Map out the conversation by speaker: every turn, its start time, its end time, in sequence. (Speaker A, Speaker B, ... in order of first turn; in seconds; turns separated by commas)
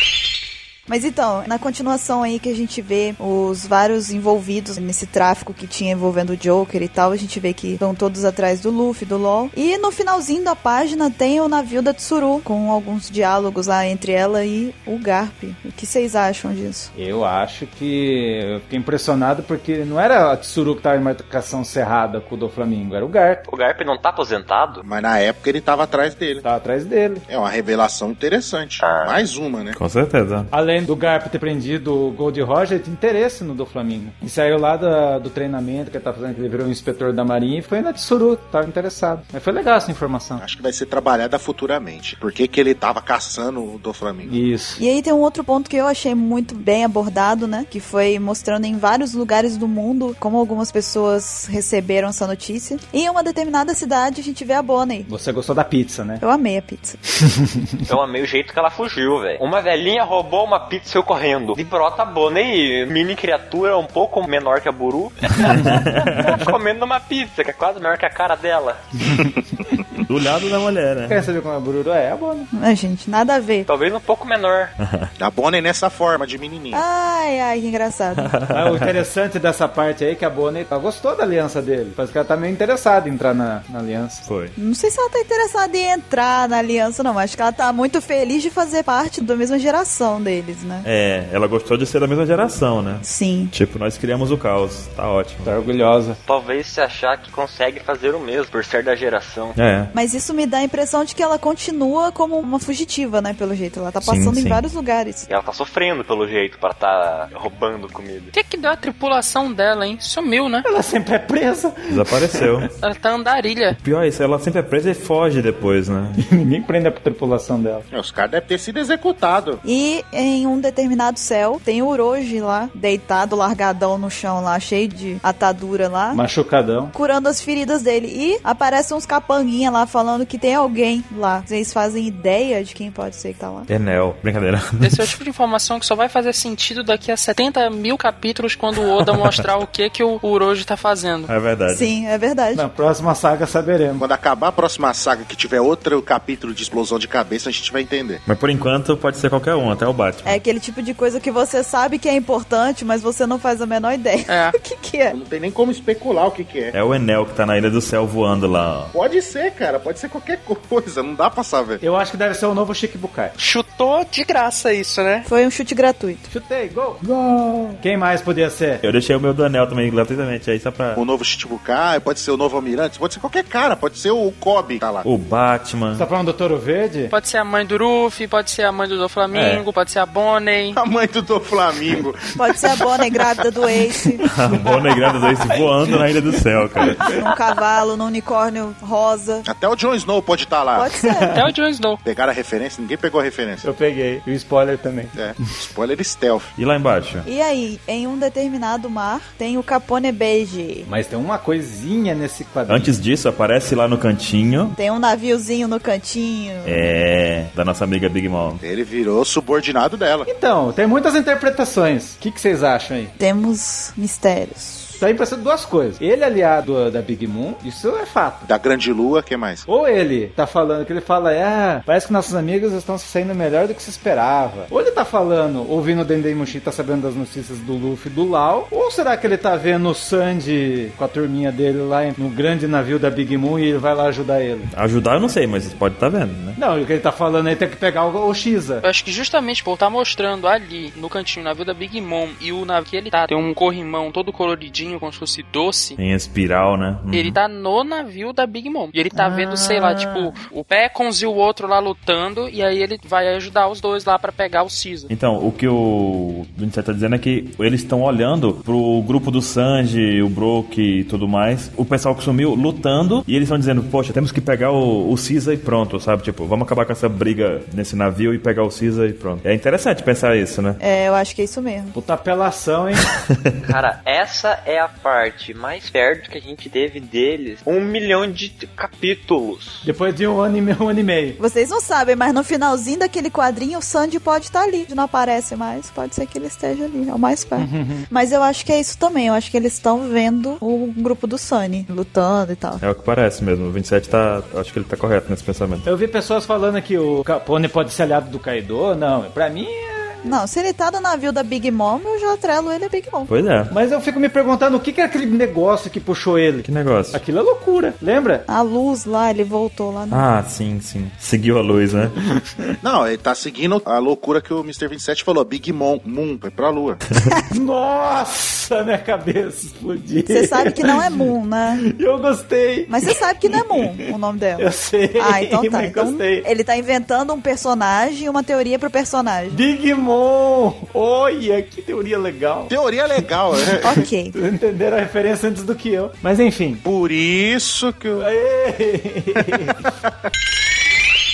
Speaker A: 0.9-16.9, Speaker B: 16.9-23.4, Speaker C: 23.4-24.8, Speaker D: 24.8-26.4, Speaker B: 26.4-27.2, Speaker D: 27.3-29.8, Speaker C: 28.8-29.2, Speaker E: 29.7-30.5, Speaker B: 30.5-40.4, Speaker D: 40.4-44.4, Speaker B: 44.2-44.8, Speaker A: 44.8-55.1, Speaker B: 55.1-56.2, Speaker A: 56.2-57.0, Speaker B: 57.4-57.8, Speaker C: 57.9-68.8, Speaker E: 65.4-66.4, Speaker B: 65.5-65.8, Speaker E: 70.0-71.3, Speaker B: 71.1-72.5, Speaker A: 72.5-73.7, Speaker C: 73.7-74.7, Speaker E: 74.8-75.1, Speaker D: 75.2-76.8, Speaker A: 76.7-78.3, Speaker E: 78.2-78.9, Speaker B: 78.5-84.2, Speaker E: 84.2-84.5, Speaker A: 84.6-90.9, Speaker E: 90.8-95.5, Speaker A: 93.0-93.5, Speaker B: 95.4-96.2, Speaker C: 96.2-99.6, Speaker E: 99.5-99.9, Speaker A: 99.9-105.3, Speaker E: 104.0-104.6, Speaker C: 105.3-108.3, Speaker F: 108.3-110.7, Speaker B: 110.6-112.7, Speaker E: 111.9-112.7, Speaker F: 112.8-113.8, Speaker E: 113.8-116.2, Speaker B: 116.2-117.8, Speaker D: 117.9-119.6, Speaker A: 119.6-126.2, Speaker B: 126.1-126.9, Speaker A: 126.9-133.7, Speaker E: 133.7-135.1, Speaker F: 134.8-141.3, Speaker E: 141.3-141.9, Speaker A: 141.7-142.6, Speaker B: 142.5-144.0, Speaker D: 144.0-148.2, Speaker E: 148.3-150.4, Speaker A: 150.2-155.2, Speaker F: 154.3-154.5, Speaker D: 155.1-156.7, Speaker E: 156.7-158.9, Speaker D: 158.9-161.8, Speaker B: 161.8-163.3, Speaker F: 163.4-165.3, Speaker A: 165.2-166.2, Speaker B: 166.3-167.0, Speaker E: 167.0-167.8, Speaker B: 167.8-168.8, Speaker E: 168.8-171.0, Speaker D: 170.9-175.1, Speaker E: 175.0-176.1, Speaker B: 175.9-177.1, Speaker F: 177.1-180.8, Speaker E: 179.3-179.6, Speaker D: 180.7-182.3, Speaker A: 182.4-184.2, Speaker B: 184.0-187.2, Speaker E: 184.3-187.0, Speaker A: 187.1-189.4, Speaker D: 189.4-190.9, Speaker A: 190.7-191.3, Speaker B: 191.0-191.4, Speaker F: 191.3-192.0, Speaker D: 192.0-193.7, Speaker B: 193.6-195.5, Speaker D: 195.1-196.5, Speaker E: 196.6-197.3, Speaker A: 197.2-200.9, Speaker B: 200.8-202.9, Speaker E: 202.7-204.8, Speaker A: 204.7-206.9, Speaker E: 206.6-208.6, Speaker D: 208.6-210.3, Speaker B: 210.3-213.1, Speaker A: 213.2-215.0, Speaker B: 215.0-218.5, Speaker D: 218.4-219.7, Speaker B: 219.7-234.7, Speaker E: 234.7-236.6, Speaker B: 236.6-238.8, Speaker F: 238.8-246.0, Speaker E: 246.0-247.4, Speaker F: 247.1-255.1, Speaker E: 255.1-270.8, Speaker A: 270.8-271.9, Speaker B: 271.9-273.1, Speaker E: 273.1-273.5, Speaker C: 273.6-279.9, Speaker B: 279.8-281.4, Speaker A: 281.4-292.8, Speaker B: 287.6-288.1, Speaker E: 292.8-295.9, Speaker B: 295.8-300.3, Speaker A: 300.2-303.3, Speaker E: 303.3-303.7, Speaker B: 303.7-308.5, Speaker E: 306.6-307.2, Speaker A: 308.5-310.2, Speaker E: 310.1-312.2, Speaker B: 312.4-312.8, Speaker D: 312.8-317.0, Speaker B: 317.5-321.2, Speaker A: 320.2-321.8, Speaker B: 321.8-323.8, Speaker A: 322.9-329.6, Speaker B: 324.6-326.5, Speaker B: 329.5-332.7, Speaker D: 332.7-334.0, Speaker A: 333.8-334.4, Speaker B: 334.3-336.8, Speaker D: 336.8-338.3, Speaker B: 338.2-339.9